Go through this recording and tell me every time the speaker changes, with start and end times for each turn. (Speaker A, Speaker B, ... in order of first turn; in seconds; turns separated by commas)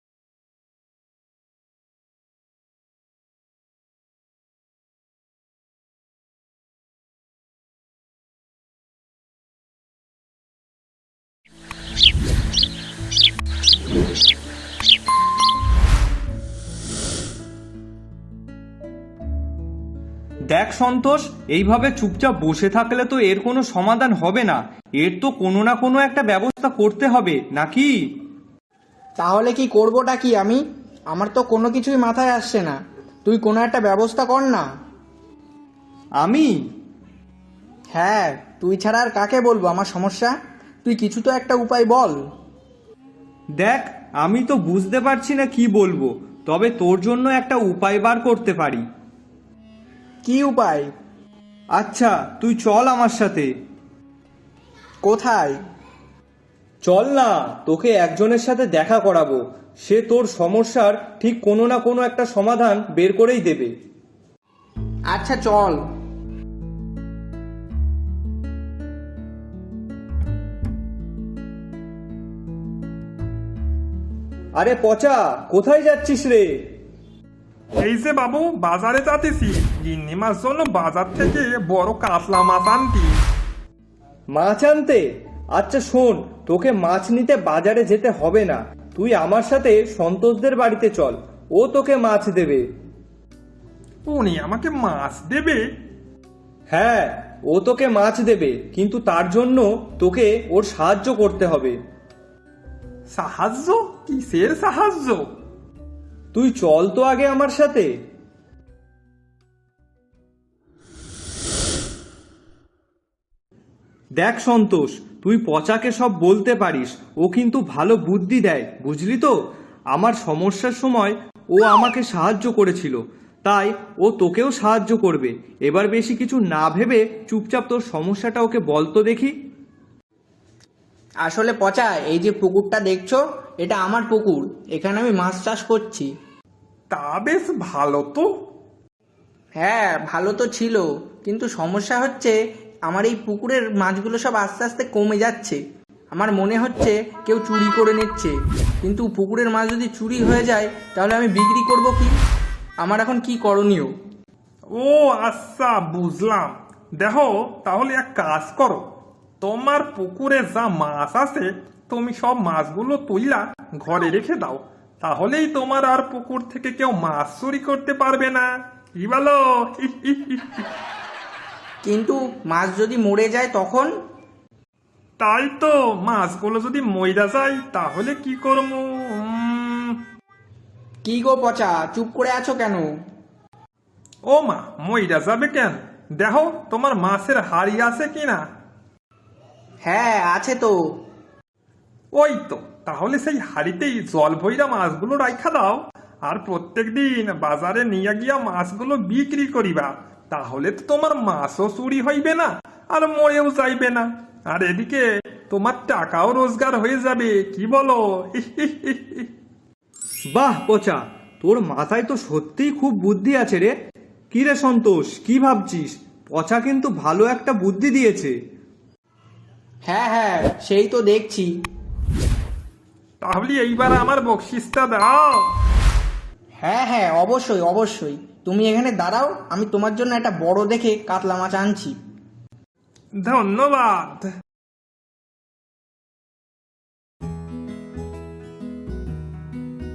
Speaker A: 20.5-27.9, Speaker B: 29.2-34.7, Speaker A: 36.2-36.5, Speaker B: 37.9-40.3, Speaker B: 40.9-42.2, Speaker A: 43.6-48.8, Speaker B: 50.2-50.9, Speaker A: 51.8-53.5, Speaker B: 55.0-55.6, Speaker A: 56.9-63.7, Speaker B: 65.1-65.8, Speaker A: 74.6-76.5, Speaker C: 77.8-83.1, Speaker A: 84.3-92.6, Speaker C: 94.1-95.6, Speaker A: 96.7-101.7, Speaker C: 103.1-105.2, Speaker A: 106.3-107.9, Speaker A: 114.2-119.3, Speaker A: 119.9-129.3, Speaker B: 131.2-136.1, Speaker C: 136.9-138.3, Speaker B: 139.6-145.6, Speaker B: 146.1-152.1, Speaker B: 152.8-153.9, Speaker C: 154.8-158.8, Speaker C: 159.4-170.7, Speaker B: 171.8-173.9, Speaker C: 175.2-180.0, Speaker B: 181.0-182.9, Speaker C: 184.3-188.4, Speaker B: 189.8-190.8, Speaker C: 192.1-209.3, Speaker A: 210.3-213.7, Speaker A: 214.3-218.3, Speaker B: 219.8-221.5, Speaker C: 223.2-225.5, Speaker B: 226.6-231.9, Speaker C: 233.2-234.3